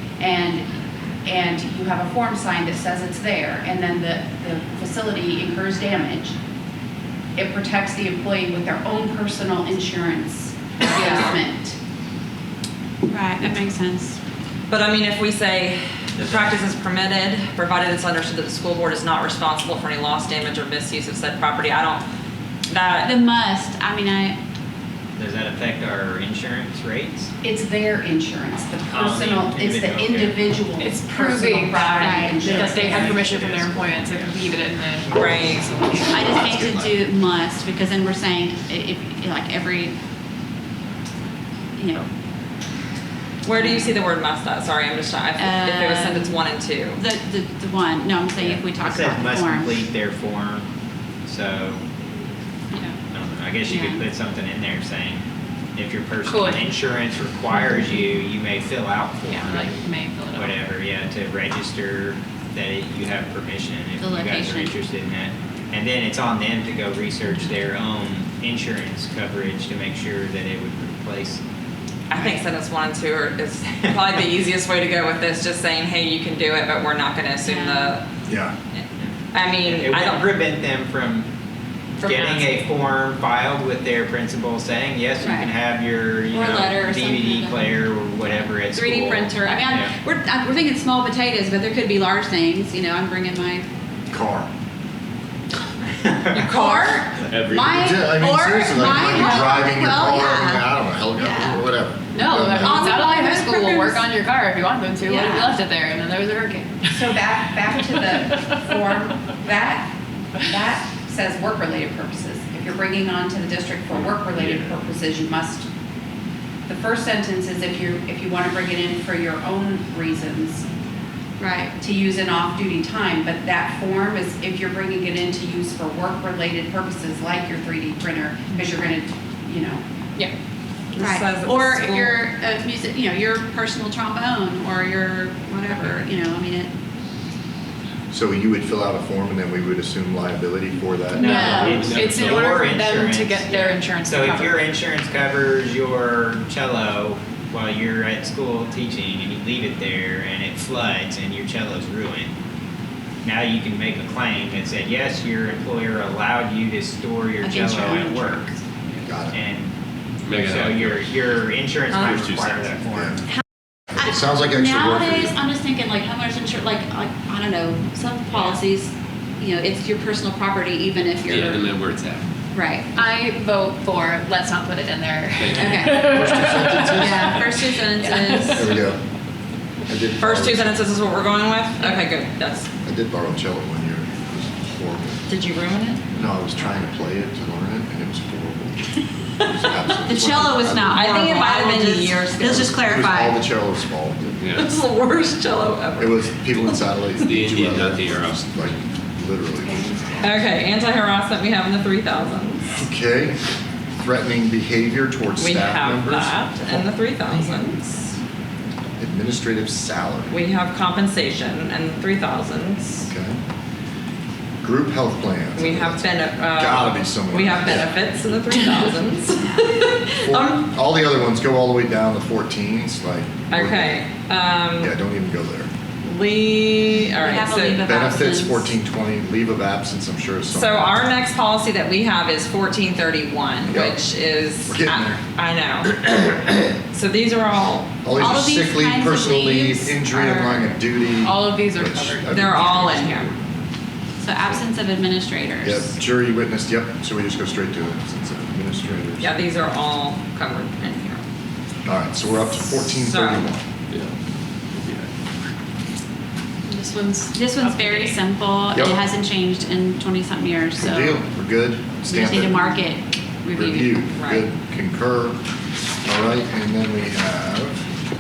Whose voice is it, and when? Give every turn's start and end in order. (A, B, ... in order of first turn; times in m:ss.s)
0:00.2-0:00.7 A
0:01.2-0:06.4 A
0:07.4-0:11.8 A
0:11.0-0:11.3 B
0:13.1-0:14.2 C
0:14.7-0:22.0 B
0:16.2-0:16.6 D
0:22.7-0:23.2 B
0:23.0-0:24.4 C
0:25.2-0:27.3 D
0:27.4-0:33.3 A
0:28.9-0:30.4 D
0:30.8-0:36.0 E
0:32.0-0:32.6 C
0:32.5-0:34.6 D
0:35.1-0:35.8 B
0:36.1-0:40.0 C
0:36.1-0:37.0 F
0:41.8-0:42.1 C
0:43.4-0:47.0 B
0:43.5-0:44.0 C
0:45.4-0:49.8 C
0:48.4-0:50.7 D
0:51.3-0:51.8 D
0:53.1-0:55.2 D
0:53.6-0:54.0 C
0:55.8-1:11.4 D
0:56.3-0:56.6 E
0:59.3-1:00.6 E
1:04.0-1:04.8 C
1:12.1-1:18.1 B
1:13.7-1:14.2 D
1:17.4-1:18.0 C
1:18.3-1:18.5 F
1:19.0-1:21.3 D
1:19.3-1:20.3 B
1:22.0-1:29.9 D
1:22.0-1:22.5 E
1:25.2-1:25.5 C
1:26.3-1:27.8 C
1:28.7-1:33.7 C
1:34.1-1:34.5 F
1:35.9-1:36.6 D
1:36.4-1:37.1 B
1:36.5-1:41.6 C
1:37.3-1:38.0 G
1:37.5-1:42.9 F
1:42.1-1:47.1 E
1:42.6-1:44.1 C
1:45.0-1:45.6 C
1:46.9-1:55.7 A
1:47.9-1:48.9 E
1:54.4-1:54.8 G
1:56.7-2:00.7 A
2:01.4-2:01.7 C
2:01.8-2:09.8 A
2:10.9-2:12.2 B
2:11.0-2:16.7 C
2:18.1-2:21.8 F
2:21.2-2:24.7 E
2:21.2-2:22.1 C
2:21.2-2:32.3 D
2:21.6-2:22.6 G
2:33.2-2:38.6 D
2:37.4-2:38.6 C
2:39.0-2:39.4 F
2:39.2-2:39.7 D
2:40.2-2:41.2 G
2:40.3-2:43.2 D
2:41.9-2:42.2 B
2:42.0-2:42.8 G
2:42.8-2:43.2 F
2:43.9-2:45.4 F
2:44.0-2:51.7 C
2:48.3-2:48.6 D
2:51.3-2:52.3 G
2:52.5-2:52.9 C
2:53.0-2:58.8 E
2:55.4-2:56.0 G
2:55.5-2:56.1 C
2:55.8-2:57.4 F
2:56.8-2:58.7 C
2:58.5-2:59.0 F
2:59.9-3:00.8 F
3:00.2-3:02.7 B
3:02.8-3:05.2 F
3:05.3-3:06.0 B
3:06.1-3:11.2 F
3:10.1-3:13.5 C
3:10.9-3:12.6 B
3:12.4-3:14.4 F
3:14.4-3:14.7 G
3:14.5-3:16.8 B
3:16.0-3:19.9 F
3:17.2-3:18.4 G
3:19.6-3:20.3 C
3:20.2-3:22.7 B
3:22.8-3:23.4 F
3:24.0-3:27.6 F
3:25.4-3:28.1 B
3:29.0-3:30.3 F
3:30.3-3:33.1 B
3:33.1-3:33.4 F
3:34.6-3:37.9 F
3:35.6-3:40.7 B
3:40.2-3:44.1 F
3:43.5-3:44.9 B
3:44.8-3:45.7 F
3:46.0-3:47.9 B
3:47.1-3:48.7 C
3:47.8-3:51.1 F
3:50.5-3:56.0 B
3:53.7-3:54.0 F
3:54.7-3:55.2 F
3:56.0-3:56.6 F
3:56.9-3:58.0 B
3:58.0-4:03.7 F
3:58.1-4:00.8 C
4:01.2-4:02.9 E
4:02.3-4:03.3 B
4:04.2-4:05.9 C
4:05.6-4:09.3 F
4:09.2-4:11.2 B
4:11.8-4:13.6 F
4:12.4-4:13.5 B
4:14.7-4:15.1 G
4:16.7-4:18.2 E
4:17.3-4:21.2 C
4:20.8-4:22.8 F
4:22.1-4:24.1 C
4:23.5-4:25.4 F
4:24.1-4:24.5 B
4:26.0-4:27.8 F